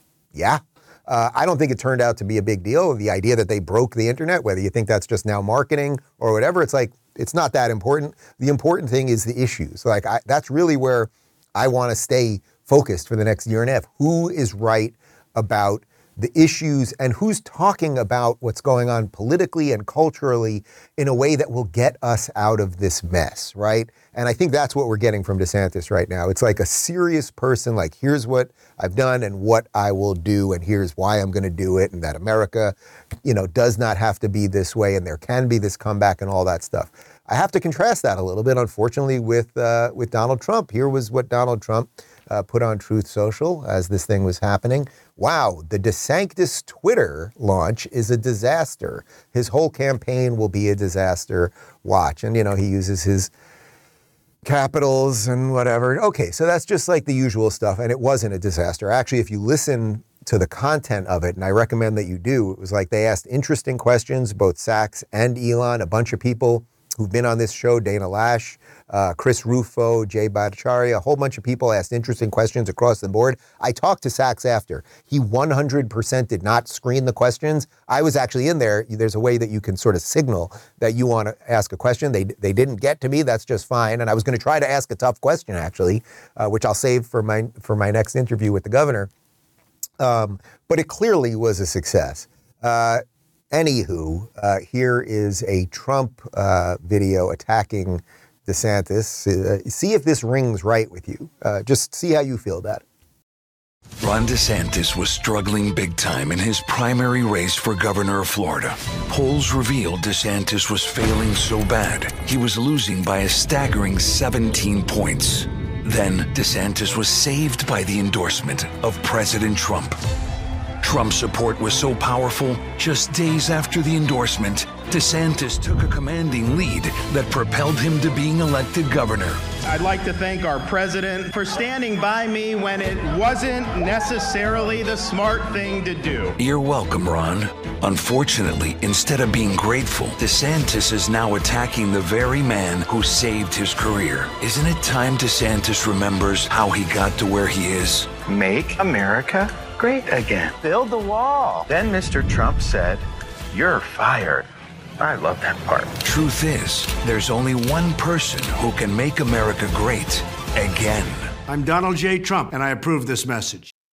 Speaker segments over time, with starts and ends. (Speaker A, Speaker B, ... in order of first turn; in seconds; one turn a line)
Speaker A: 0.3-53.3
Speaker A: 54.4-89.1
Speaker A: 90.0-102.8
Speaker B: 104.0-120.0
Speaker B: 120.8-129.4
Speaker C: 129.7-136.4
Speaker B: 136.4-148.2
Speaker D: 148.2-154.5
Speaker D: 155.0-156.0
Speaker B: 156.0-161.3
Speaker E: 161.5-163.7